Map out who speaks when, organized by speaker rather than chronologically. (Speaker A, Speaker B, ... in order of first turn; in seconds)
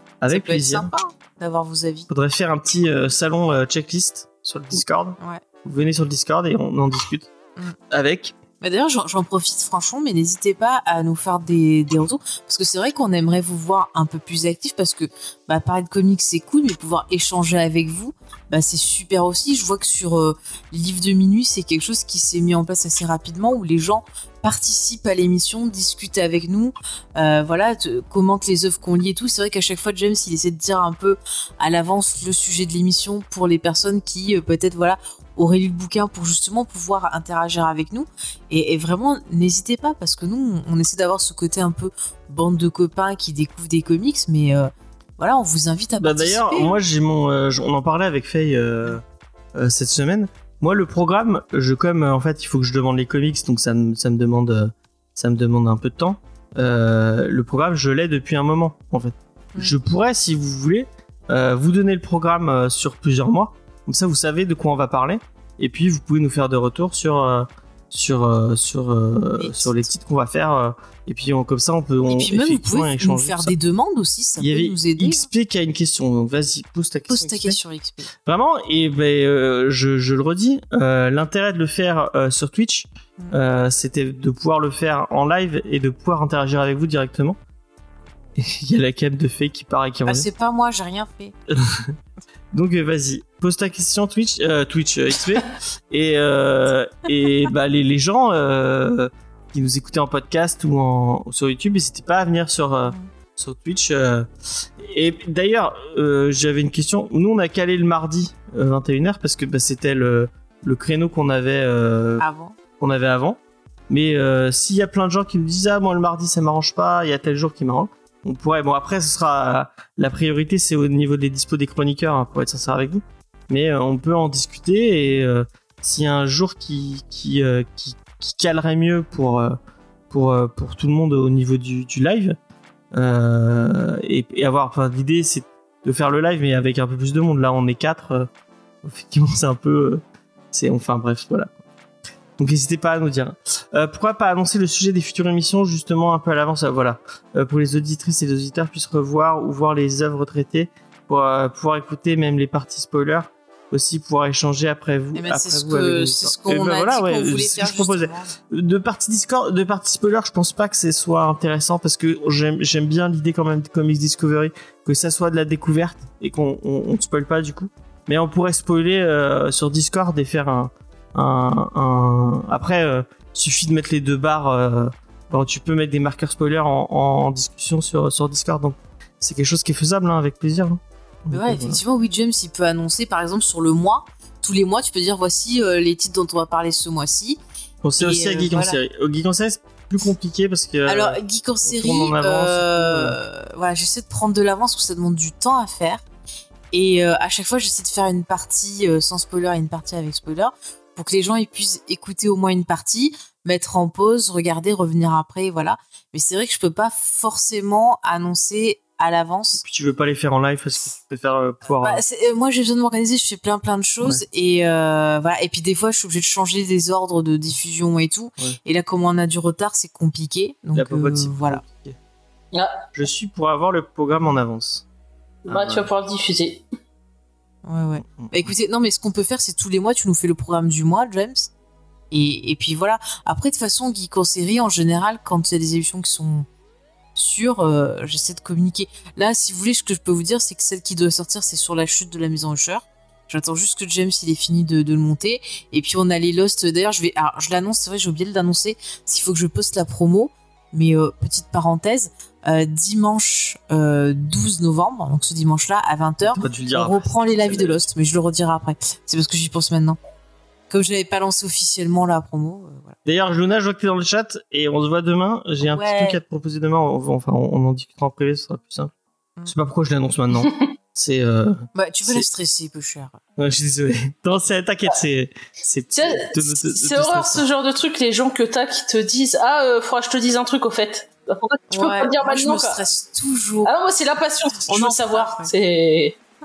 Speaker A: 0.2-0.9, 2.1-7.3, 7.9-8.4, 46.0-49.0, 49.5-73.5, 74.4-77.6, 78.2-87.4, 88.4-90.3, 91.5-91.9, 92.5-112.2, 112.8-113.4, 113.9-129.6, 130.1-132.4, 132.9-138.3, 138.8-141.6, 142.4-181.8, 187.8-193.2, 209.6-212.0, 220.7-222.0, 222.9-224.8, 225.5-225.9, 228.1-228.5, 256.3-257.8, 263.1-268.9, 269.5-272.3, 273.4-277.4
Speaker B: 0.3-2.1, 8.6-46.8, 69.4-69.9, 72.1-75.3, 77.1-78.1, 90.1-91.3, 112.2-112.5, 155.2-158.3, 181.3-187.4, 188.0-188.8, 190.9-196.0, 196.7-209.6, 211.8-221.6, 227.7-231.5, 232.1-236.5, 237.2-260.0, 260.7-263.0, 265.6-266.2, 271.8-273.2, 281.7-283.7, 284.6-285.5
Speaker C: 222.5-222.8, 225.4-226.7, 275.9-282.8, 283.6-286.2